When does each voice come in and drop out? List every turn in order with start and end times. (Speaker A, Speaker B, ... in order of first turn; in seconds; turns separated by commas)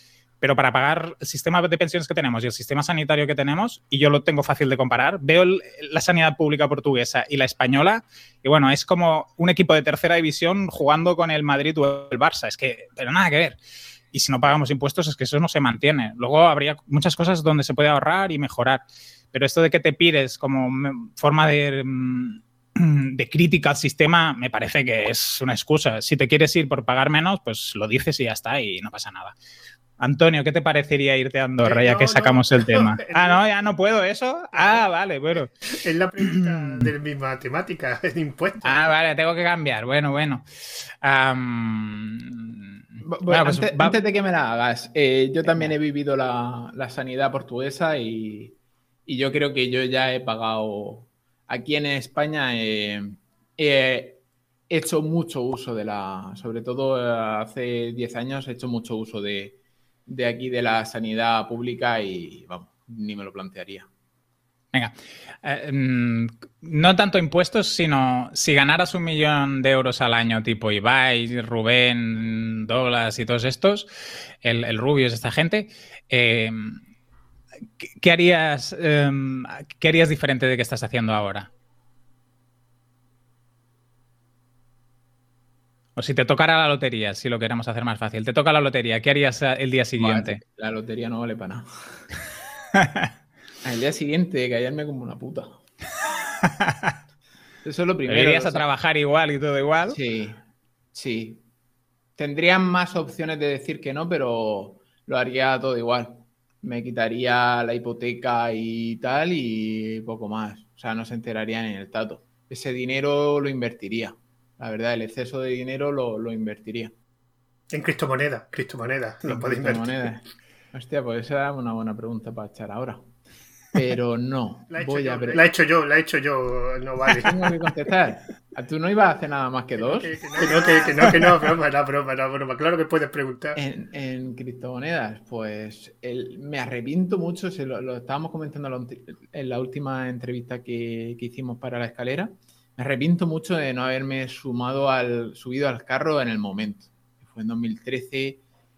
Speaker A: 0.4-13.6, Speaker A: 14.1-29.4, Speaker A: 30.0-35.7, Speaker B: 31.6-33.4, Speaker B: 34.5-34.8, Speaker B: 35.7-38.9, Speaker A: 36.2-36.9, Speaker A: 38.6-44.0, Speaker C: 43.0-48.5, Speaker C: 49.1-63.9, Speaker A: 64.7-73.9, Speaker A: 74.4-76.8, Speaker A: 77.8-81.5, Speaker A: 86.0-90.4, Speaker C: 90.0-92.0, Speaker A: 92.8-93.1, Speaker C: 93.6-95.6, Speaker A: 96.4-97.0, Speaker C: 97.6-98.7, Speaker A: 98.1-100.0, Speaker C: 99.8-101.4, Speaker C: 102.2-116.9, Speaker B: 117.7-120.1, Speaker C: 119.2-123.1, Speaker C: 123.7-125.4, Speaker B: 124.7-127.5, Speaker C: 127.1-130.7, Speaker B: 129.8-133.6, Speaker C: 133.6-148.4